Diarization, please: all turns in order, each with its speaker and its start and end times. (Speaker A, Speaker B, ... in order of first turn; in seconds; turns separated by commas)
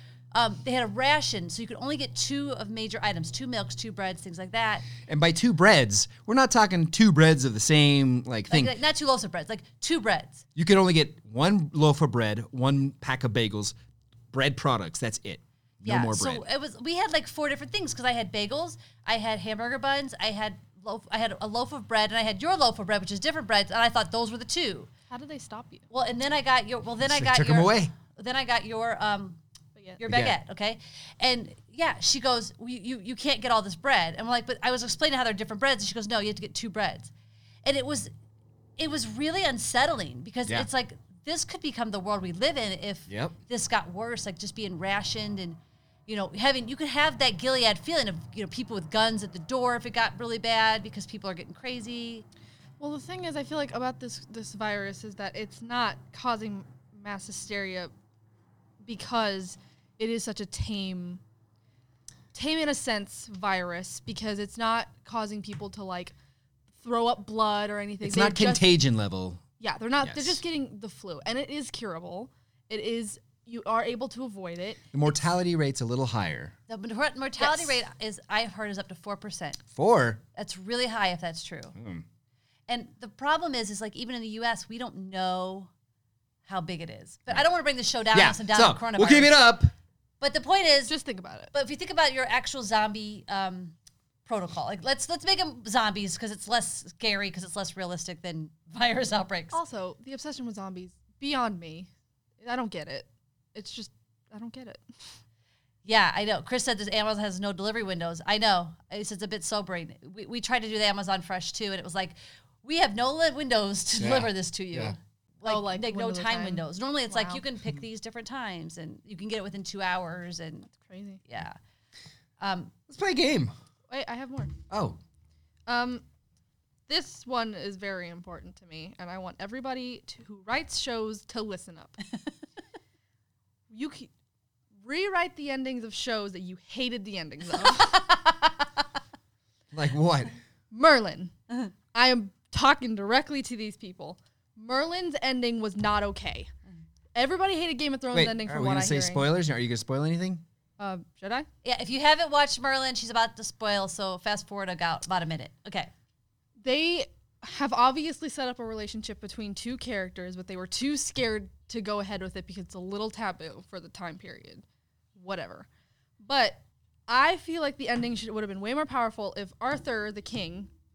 Speaker A: 0.3-4.9, Speaker B: 5.1-8.7, Speaker A: 8.5-10.4, Speaker B: 10.6-13.8, Speaker B: 14.3-16.4, Speaker A: 15.8-24.9, Speaker C: 25.1-25.9, Speaker A: 25.9-29.4, Speaker B: 27.0-27.9, Speaker A: 30.0-37.1, Speaker B: 30.1-30.4, Speaker A: 37.6-38.1, Speaker A: 38.8-52.2, Speaker B: 43.1-43.4, Speaker C: 52.8-57.9, Speaker C: 58.8-61.2, Speaker C: 62.3-66.2, Speaker C: 66.8-68.7, Speaker B: 68.0-69.4, Speaker C: 69.6-74.9, Speaker B: 70.0-70.4, Speaker B: 74.9-76.6, Speaker A: 76.7-79.6, Speaker C: 77.4-77.8, Speaker B: 79.7-80.2, Speaker A: 80.3-81.8, Speaker B: 81.8-82.0, Speaker A: 82.7-85.7, Speaker A: 86.5-89.4, Speaker B: 88.1-89.7, Speaker A: 90.2-90.9, Speaker C: 90.9-91.5, Speaker A: 91.5-99.6, Speaker C: 99.5-101.9, Speaker C: 102.4-104.8, Speaker A: 105.8-120.7, Speaker B: 114.0-115.0, Speaker C: 115.5-117.4, Speaker C: 120.8-121.2, Speaker A: 121.3-121.6, Speaker A: 122.4-122.7, Speaker B: 122.9-123.5, Speaker C: 123.9-124.5, Speaker B: 124.7-125.0, Speaker C: 125.7-126.0, Speaker C: 126.9-132.0, Speaker C: 133.7-134.1, Speaker C: 134.8-138.2, Speaker A: 137.7-138.3, Speaker B: 139.7-140.3, Speaker C: 140.7-141.3, Speaker C: 141.9-146.5, Speaker C: 147.2-149.3, Speaker B: 148.1-150.4, Speaker C: 150.8-151.5, Speaker A: 151.6-155.9, Speaker C: 156.6-164.6, Speaker C: 165.2-165.7, Speaker C: 166.2-170.7